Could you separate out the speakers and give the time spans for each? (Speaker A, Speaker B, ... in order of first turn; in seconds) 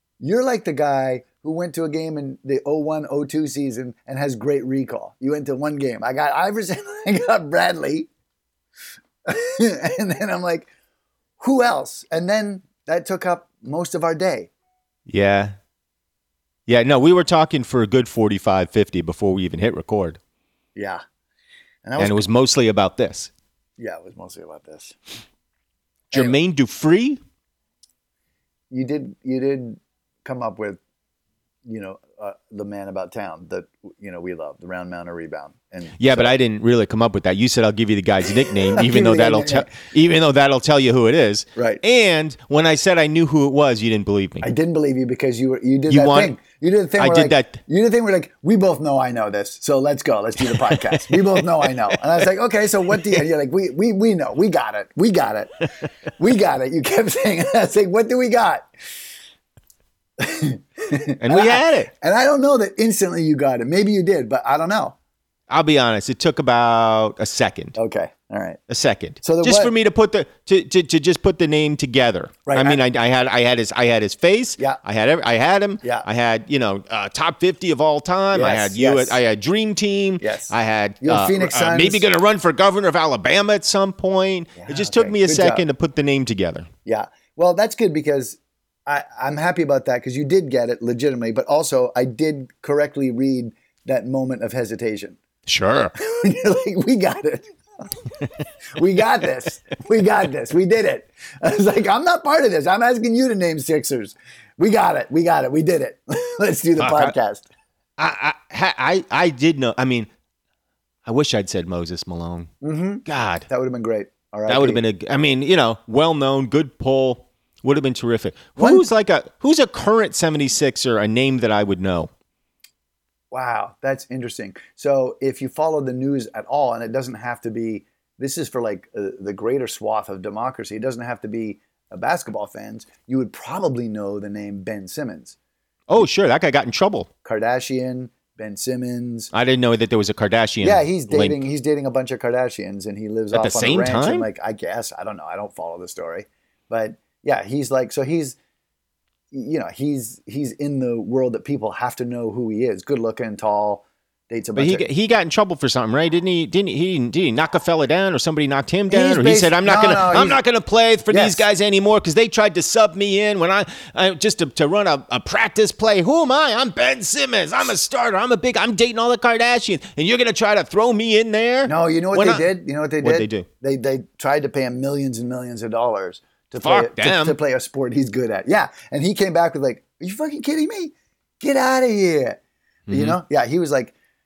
Speaker A: 0.2-8.1, 9.2-10.7, 11.4-14.5, 20.8-21.0, 21.8-22.3, 23.8-25.0, 26.1-26.4, 28.7-30.8, 31.6-36.3, 38.5-39.7, 41.6-41.8, 44.4-58.7, 60.2-65.0, 67.8-68.6, 69.2-69.7, 72.5-72.8, 78.3-79.2, 80.2-82.0, 84.6-85.7, 86.8-95.2, 96.0-98.1, 98.8-107.5, 112.6-114.8, 118.6-118.8, 123.3-135.4, 137.2-139.3, 140.6-148.4, 149.3-154.9, 158.9-160.4, 161.1-161.4, 171.7-183.9
Speaker B: 15.1-15.6, 16.7-20.2, 22.0-23.3, 26.1-27.2, 36.0-44.5, 45.9-46.4, 47.0-47.6, 50.7-51.4, 61.2-61.9, 65.5-67.8, 68.7-86.7, 95.5-96.0, 106.8-107.1, 108.0-110.1, 111.0-112.5, 113.1-113.5, 114.5-122.1, 135.9-137.1, 139.3-141.4, 143.3-144.3, 154.6-172.5, 173.0-173.5, 176.6-177.4, 182.9-183.2